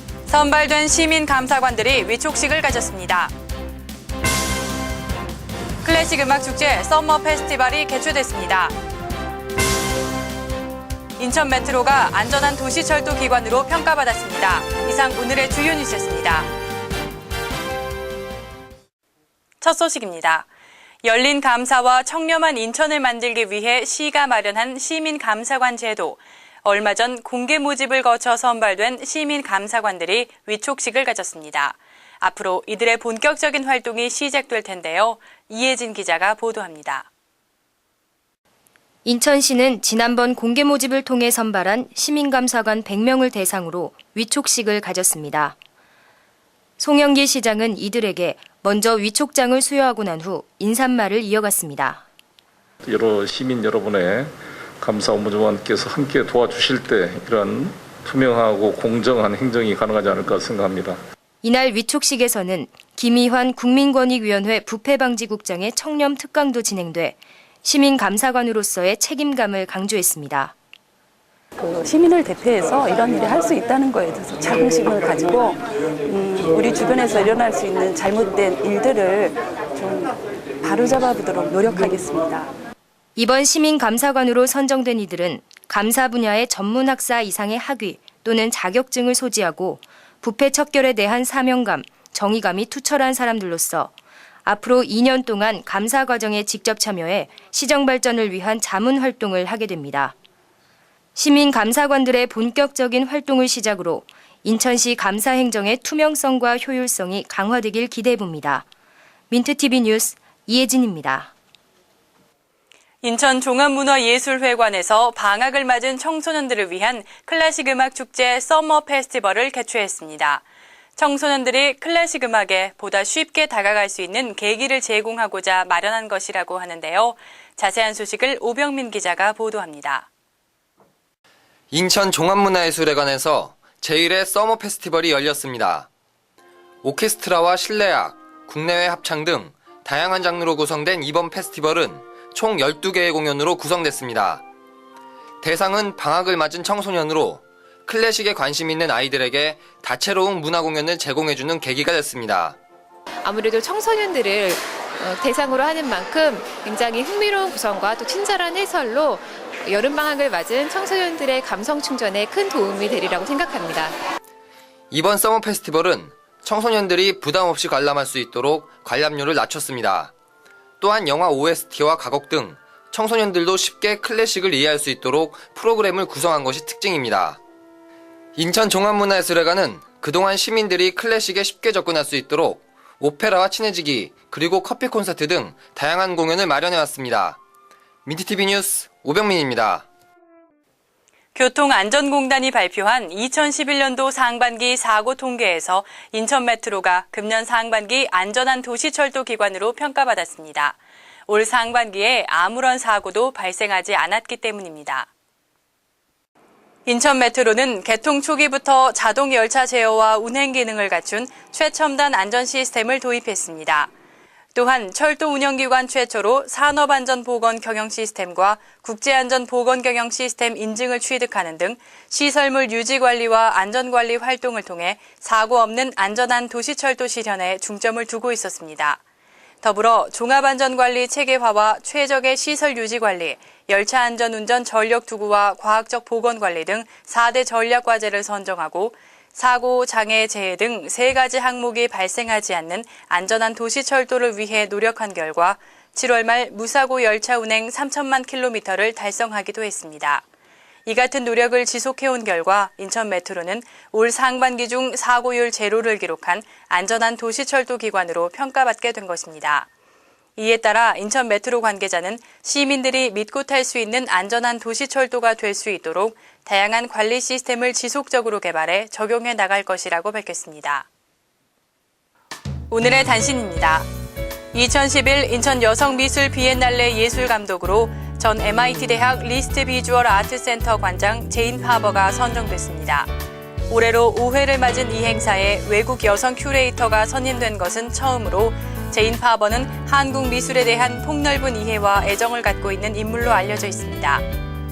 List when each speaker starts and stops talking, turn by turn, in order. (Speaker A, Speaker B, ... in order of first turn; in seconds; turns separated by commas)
Speaker A: 0.3-3.3, Speaker A: 5.8-8.7, Speaker A: 11.2-16.5, Speaker A: 19.6-20.5, Speaker A: 21.0-37.1, Speaker B: 39.0-45.6, Speaker B: 46.8-52.0, Speaker C: 52.9-61.0, Speaker B: 61.4-70.5, Speaker D: 71.6-80.1, Speaker D: 80.6-82.5, Speaker B: 83.2-93.9, Speaker B: 94.5-100.1, Speaker B: 101.2-108.7, Speaker B: 109.3-111.3, Speaker A: 113.0-120.4, Speaker A: 121.0-130.1, Speaker E: 131.7-135.9, Speaker E: 136.8-144.4, Speaker E: 145.4-152.6, Speaker F: 153.2-163.9, Speaker E: 164.9-170.1, Speaker E: 170.8-177.4, Speaker E: 178.4-187.4, Speaker E: 188.1-189.9, Speaker A: 191.3-200.8, Speaker A: 201.3-205.1, Speaker A: 206.9-213.9, Speaker A: 214.6-229.0, Speaker A: 229.6-250.2, Speaker A: 250.9-259.7, Speaker A: 260.4-270.9, Speaker A: 272.7-273.9, Speaker A: 274.5-283.1, Speaker A: 283.7-294.2